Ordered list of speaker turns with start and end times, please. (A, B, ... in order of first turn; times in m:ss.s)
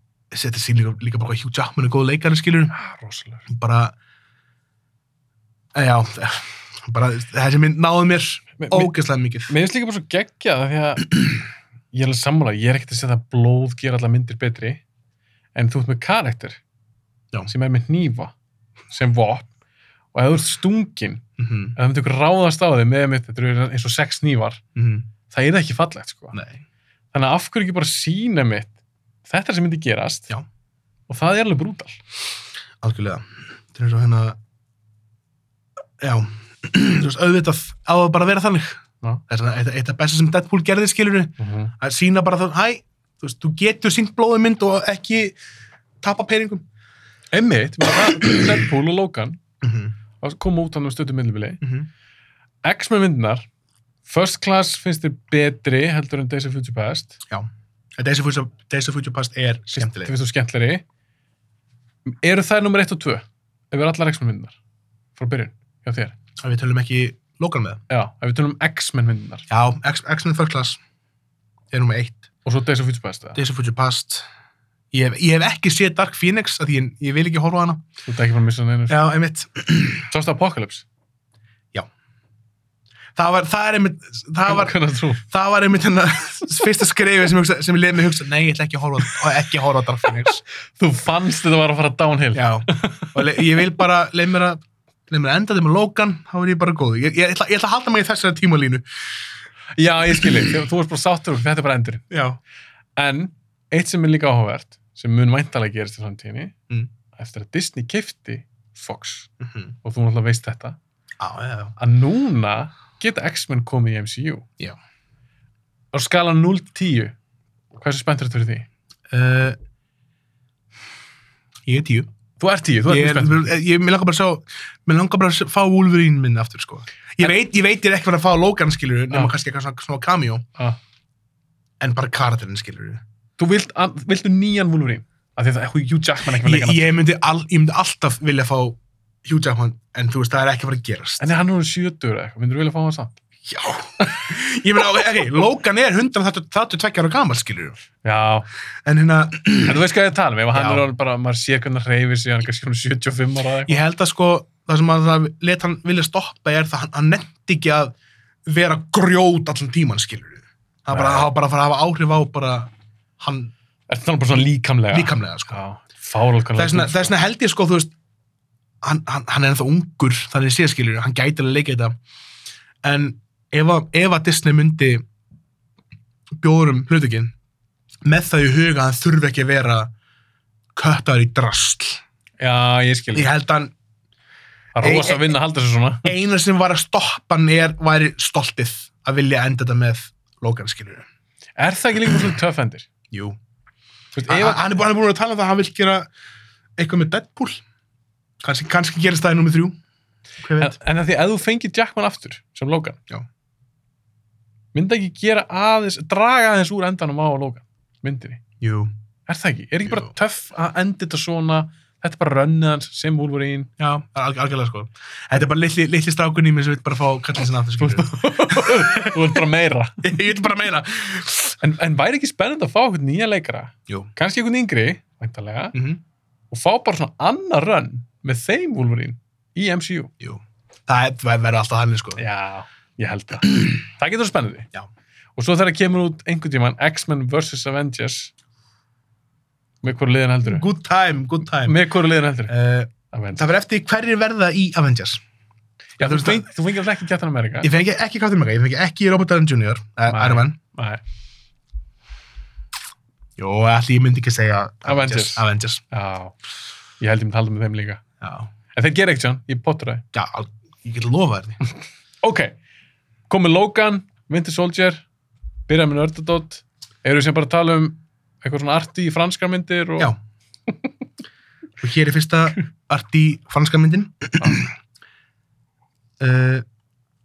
0:00.3-0:02.7 A
0:02.7-0:03.4 B
0:03.5-0:04.0 A
0:05.7-0:09.5 A
0:08.6-0:08.9 B
0:09.5-0:11.4 B
0:11.9-0:14.8 B
0:15.6-0:16.6 B
0:17.5-0:18.3 B
0:18.9-0:19.5 B
0:20.1-0:21.2 B
0:21.4-0:21.8 A
0:21.8-0:24.6 B
0:24.8-0:25.1 A
0:25.3-0:26.4 B
0:26.3-0:26.6 A
0:27.1-0:28.7 B
0:29.3-0:30.3 B
0:31.1-0:32.0 B
0:32.8-0:34.4 A
0:36.0-0:45.4 A
0:41.4-0:41.7 B
0:46.0-0:46.6 A
0:47.3-0:49.4 B
0:49.6-0:49.9 A
0:50.2-0:51.6 B
0:51.6-0:51.9 A
0:52.6-0:53.4 B
0:54.1-0:57.2 B
0:57.3-1:00.1 A
0:59.7-1:00.8 B
1:02.1-1:04.6 B
1:05.2-1:06.1 B
1:06.4-1:07.8 A
1:07.9-1:09.5 B
1:09.5-1:10.8 A
1:11.7-1:12.2 A
1:12.4-1:13.4 B
1:13.4-1:14.3 A
1:14.9-1:17.8 A
1:18.0-1:19.0 B
1:18.9-1:20.1 A
1:20.1-1:20.8 B
1:23.2-1:30.4 A
1:24.4-1:25.2 B
1:30.8-1:33.3 B
1:32.4-1:38.9 A
1:39.8-1:42.1 B
1:42.1-1:42.4 A
1:43.0-1:46.6 B
1:47.2-1:49.3 B
1:49.4-1:49.7 A
1:49.8-1:50.8 B
1:51.2-1:51.8 A
1:51.8-1:54.4 B
1:55.9-1:57.1 B
1:57.7-1:58.7 B
1:59.1-1:59.6 A
2:01.6-2:02.1 A
2:02.4-2:03.5 B
2:02.9-2:10.4 A
2:11.8-2:13.0 A
2:13.4-2:17.0 B
2:16.3-2:21.3 A
2:21.2-2:23.2 B
2:23.5-2:27.8 A
2:28.0-2:28.5 B
2:28.8-2:29.8 A
2:29.6-2:33.8 B
2:30.5-2:30.8 A
2:33.7-2:38.0 A
2:38.4-2:43.5 A
2:40.9-2:41.3 B
2:43.9-2:47.1 B
2:44.9-2:45.6 A
2:46.6-2:47.9 A
2:48.8-2:52.0 A
2:52.8-2:55.0 A
2:56.4-2:57.3 A
2:58.0-2:59.9 A
3:00.8-3:02.0 A
3:02.4-3:03.3 B
3:03.1-3:03.7 A
3:04.8-3:06.1 B
3:04.8-3:05.3 A
3:06.0-3:11.1 A
3:11.6-3:12.9 B
3:13.1-3:13.4 A
3:14.1-3:14.6 B
3:14.3-3:16.1 A
3:16.8-3:17.6 A
3:18.4-3:19.8 A
3:20.4-3:20.8 A
3:20.6-3:23.0 B
3:24.7-3:28.4 B
3:28.6-3:28.9 A
3:29.3-3:33.7 B
3:33.8-3:39.4 A
3:37.8-3:40.1 B
3:40.0-3:41.6 A
3:41.6-3:45.8 B
3:45.7-3:46.0 A
3:46.5-3:50.1 B
3:50.2-3:52.2 A
3:52.2-3:54.7 B
3:55.4-3:58.3 B
3:59.8-4:00.7 B
4:00.4-4:01.8 A
4:01.6-4:02.6 B
4:02.5-4:05.2 A
4:03.1-4:03.5 B
4:06.0-4:06.5 A
4:06.0-4:07.7 B
4:07.6-4:10.6 A
4:10.1-4:11.0 B
4:13.4-4:15.8 A
4:14.9-4:16.4 B
4:17.0-4:18.0 B
4:18.2-4:18.5 A
4:18.8-4:20.0 B
4:20.1-4:21.6 A
4:22.2-4:22.6 B
4:23.3-4:25.0 B
4:25.7-4:30.1 B
4:31.8-4:34.7 A
4:36.2-4:36.6 A